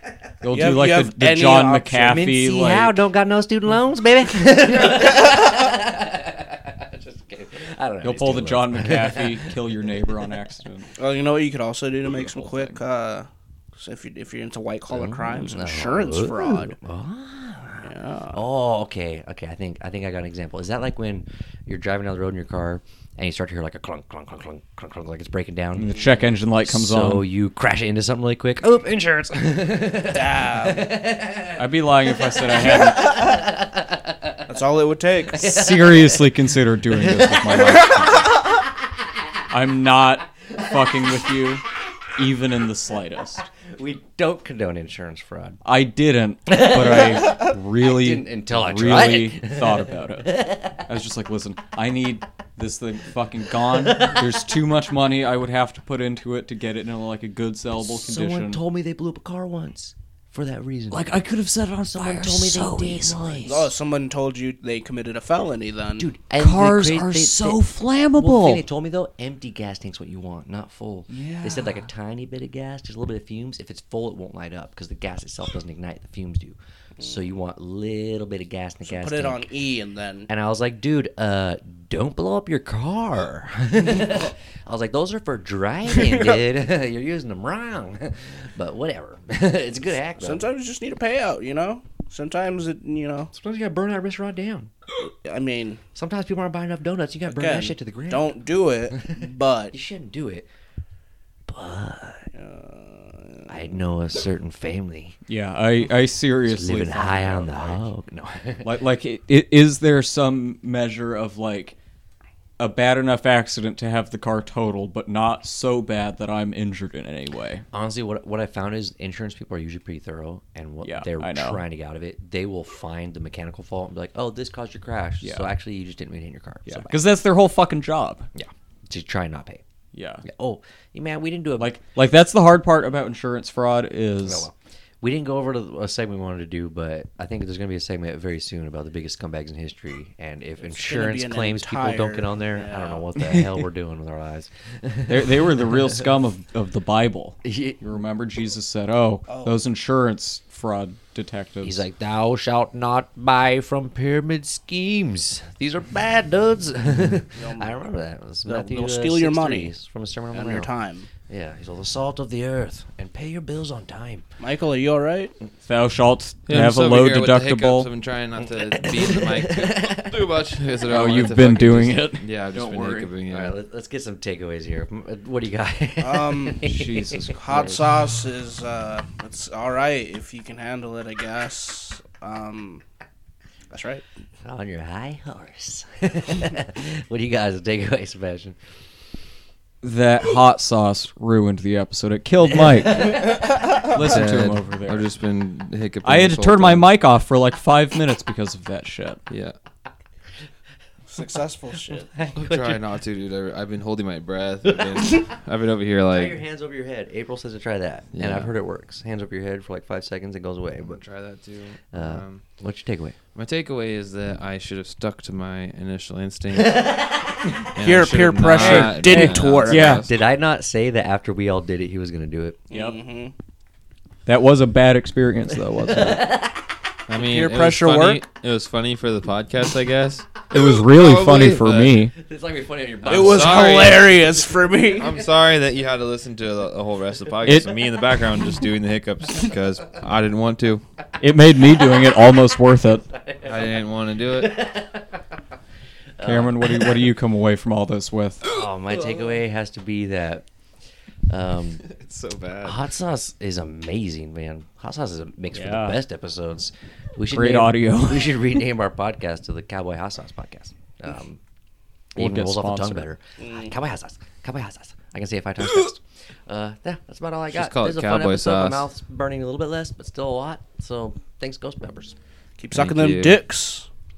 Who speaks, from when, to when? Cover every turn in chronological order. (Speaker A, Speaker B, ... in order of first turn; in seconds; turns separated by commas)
Speaker A: 0.4-2.9, Speaker B: 0.5-2.2, Speaker C: 2.0-9.6, Speaker A: 8.0-10.9, Speaker B: 11.0-16.7, Speaker A: 12.1-12.8, Speaker C: 14.9-26.0, Speaker B: 17.8-18.4, Speaker A: 25.8-27.2, Speaker C: 26.6-31.6, Speaker B: 30.1-30.9, Speaker A: 31.6-33.3, Speaker C: 32.6-34.4, Speaker B: 34.5-35.4, Speaker C: 35.3-36.3, Speaker A: 35.4-38.4, Speaker C: 36.9-37.9, Speaker B: 37.5-38.1, Speaker A: 39.5-41.6, Speaker A: 42.1-43.4, Speaker C: 43.7-45.6, Speaker A: 45.6-58.6, Speaker C: 46.5-50.8, Speaker C: 53.7-54.3, Speaker C: 57.8-61.1, Speaker A: 60.9-63.6, Speaker C: 61.8-63.7, Speaker B: 63.5-66.1, Speaker C: 66.0-67.6, Speaker A: 66.3-68.6, Speaker C: 68.1-79.5, Speaker A: 71.1-71.9, Speaker B: 78.8-80.3, Speaker C: 80.3-90.4, Speaker B: 90.2-93.3, Speaker C: 93.3-94.7, Speaker B: 95.0-95.8, Speaker C: 95.9-98.3, Speaker B: 97.3-99.7, Speaker C: 98.9-100.5, Speaker C: 101.5-102.3, Speaker B: 102.3-103.6, Speaker C: 103.5-105.2, Speaker A: 105.3-107.5, Speaker C: 106.4-108.7, Speaker A: 108.6-111.8, Speaker A: 112.6-117.6, Speaker C: 117.7-127.0, Speaker A: 120.8-121.6, Speaker A: 125.2-125.5, Speaker A: 126.7-128.3, Speaker C: 128.3-129.6, Speaker A: 129.9-130.2, Speaker C: 130.2-131.8, Speaker A: 131.6-134.5, Speaker C: 134.2-146.0, Speaker B: 140.7-143.4, Speaker A: 145.1-151.8, Speaker C: 147.4-147.8, Speaker B: 149.3-149.6, Speaker C: 151.6-160.7, Speaker B: 157.3-157.8, Speaker B: 158.4-159.7, Speaker B: 160.3-161.1, Speaker C: 161.3-164.2, Speaker B: 164.4-165.3, Speaker A: 165.6-167.9, Speaker D: 166.5-173.5, Speaker C: 168.4-170.2, Speaker A: 170.9-173.1, Speaker C: 173.3-177.7, Speaker B: 176.0-176.7, Speaker A: 176.6-177.8, Speaker B: 177.3-182.8, Speaker B: 183.7-184.0, Speaker C: 184.4-188.6, Speaker A: 189.8-195.1, Speaker D: 194.0-196.9, Speaker A: 196.0-199.2, Speaker D: 199.3-199.5, Speaker B: 201.1-202.1, Speaker C: 201.9-202.8, Speaker D: 202.3-206.4, Speaker C: 206.1-211.0, Speaker D: 208.1-208.5, Speaker D: 210.8-212.4, Speaker C: 211.9-213.2, Speaker D: 213.3-217.0, Speaker C: 216.7-217.2, Speaker D: 217.7-220.1, Speaker B: 217.8-219.9, Speaker A: 218.5-220.1, Speaker C: 219.8-222.6, Speaker B: 222.7-223.3, Speaker A: 222.7-223.0, Speaker A: 224.2-226.4, Speaker C: 225.8-226.6, Speaker D: 227.1-232.0, Speaker B: 227.2-228.2, Speaker A: 230.5-232.1, Speaker C: 232.1-233.8, Speaker D: 233.0-234.1, Speaker B: 233.1-235.1, Speaker D: 235.0-240.8, Speaker A: 237.4-237.7, Speaker A: 241.2-243.0, Speaker C: 243.0-243.8, Speaker D: 243.4-244.6, Speaker C: 244.3-245.2, Speaker C: 246.2-247.0, Speaker A: 246.2-248.4, Speaker C: 248.4-250.4, Speaker C: 251.3-251.8, Speaker D: 251.8-252.8, Speaker C: 252.6-261.4, Speaker A: 255.5-256.0, Speaker A: 257.3-258.4, Speaker C: 262.1-272.1, Speaker A: 262.2-263.1, Speaker B: 263.4-263.7, Speaker D: 267.5-268.8, Speaker B: 272.6-273.9, Speaker D: 272.7-273.4